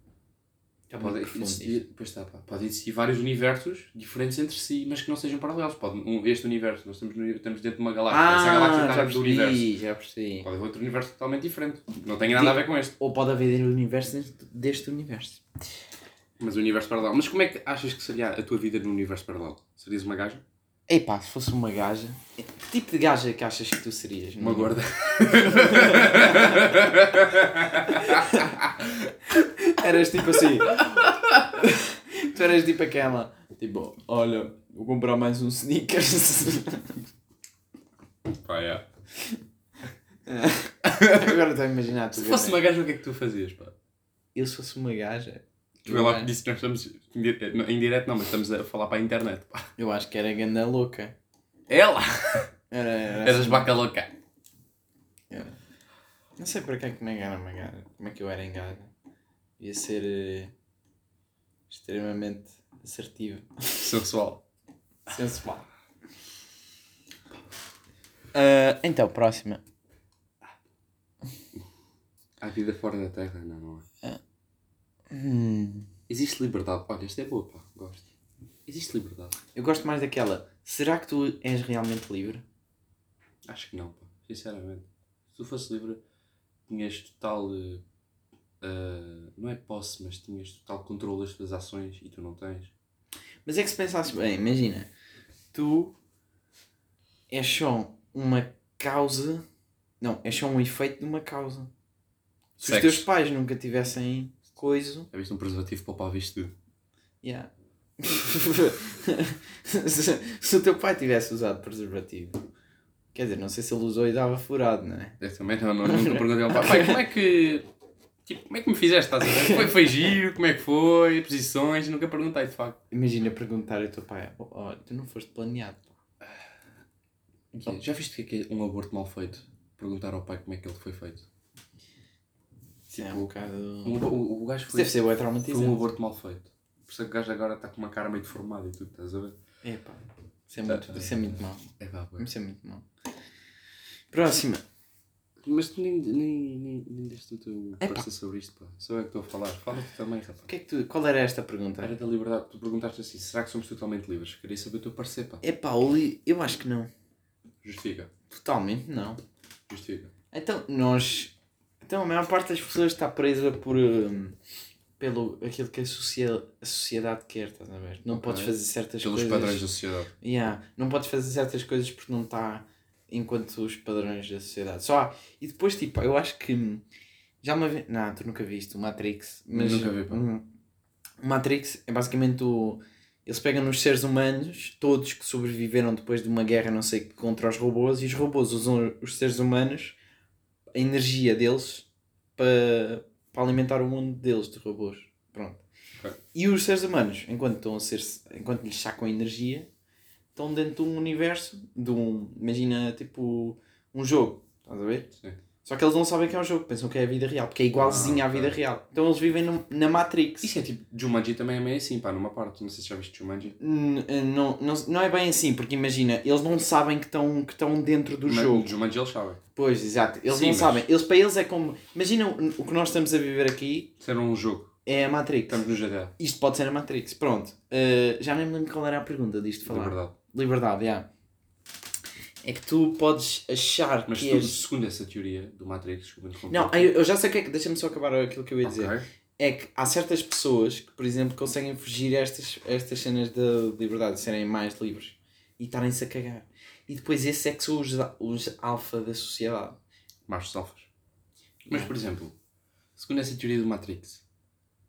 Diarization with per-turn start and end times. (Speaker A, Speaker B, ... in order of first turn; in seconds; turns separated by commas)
Speaker A: 0.9-1.8, Speaker B: 1.0-9.7, Speaker A: 8.1-10.5, Speaker B: 10.4-12.9, Speaker A: 12.3-15.4, Speaker B: 16.4-20.4, Speaker A: 20.9-24.8, Speaker B: 24.4-29.1, Speaker A: 25.3-26.6, Speaker A: 27.9-28.5, Speaker A: 29.3-37.0, Speaker B: 38.3-38.9, Speaker A: 40.3-42.6, Speaker B: 40.9-41.4, Speaker B: 42.1-43.7, Speaker A: 44.3-46.3, Speaker B: 45.8-49.7, Speaker A: 49.8-51.1, Speaker B: 51.7-52.5, Speaker A: 52.7-53.7, Speaker B: 53.2-54.1, Speaker A: 55.3-55.5, Speaker A: 56.4-58.9, Speaker A: 59.6-60.5, Speaker A: 61.7-63.9, Speaker B: 63.8-64.4, Speaker A: 65.1-65.7, Speaker A: 68.3-69.6, Speaker B: 72.4-73.8, Speaker A: 75.1-75.9, Speaker B: 76.1-78.0, Speaker B: 78.7-79.4, Speaker A: 79.5-82.4, Speaker B: 83.4-86.0, Speaker B: 86.7-87.8, Speaker B: 88.6-92.7, Speaker A: 93.5-94.9, Speaker A: 95.5-96.0, Speaker A: 97.3-99.4, Speaker A: 100.0-101.7, Speaker B: 102.6-103.1, Speaker A: 102.6-105.1, Speaker B: 105.1-106.5, Speaker A: 107.2-112.4, Speaker A: 113.1-115.2, Speaker B: 115.2-117.7, Speaker A: 115.8-116.9, Speaker B: 118.2-122.8, Speaker A: 119.4-119.7, Speaker A: 122.9-125.9, Speaker B: 127.5-131.2, Speaker A: 132.9-134.1, Speaker B: 132.9-133.3, Speaker B: 133.8-139.3, Speaker A: 134.7-135.8, Speaker A: 139.6-142.8, Speaker B: 140.7-142.3, Speaker A: 144.1-144.6, Speaker B: 145.4-150.5, Speaker A: 147.8-148.1, Speaker A: 150.5-151.9, Speaker B: 151.8-155.4, Speaker A: 155.4-156.9, Speaker B: 157.6-158.1, Speaker A: 158.3-159.2, Speaker B: 159.7-160.1, Speaker A: 160.3-164.3, Speaker A: 165.0-169.7, Speaker B: 168.1-170.1, Speaker A: 170.2-176.8, Speaker A: 177.4-180.4, Speaker B: 179.5-180.2, Speaker A: 181.2-189.9, Speaker A: 190.7-195.6, Speaker A: 196.3-199.7, Speaker A: 200.3-205.1, Speaker A: 205.6-210.5, Speaker B: 207.7-208.6, Speaker B: 210.4-213.5, Speaker A: 213.6-218.7, Speaker B: 218.2-219.4, Speaker A: 219.6-223.9, Speaker B: 220.3-220.8, Speaker B: 224.0-224.7, Speaker A: 224.8-225.6, Speaker B: 225.5-226.1, Speaker A: 226.2-231.1, Speaker B: 229.7-230.1, Speaker A: 232.4-234.6, Speaker B: 234.1-236.9, Speaker A: 236.5-249.8, Speaker B: 238.6-239.1, Speaker B: 250.3-250.9, Speaker A: 251.7-251.9, Speaker B: 251.7-252.3, Speaker B: 252.9-254.2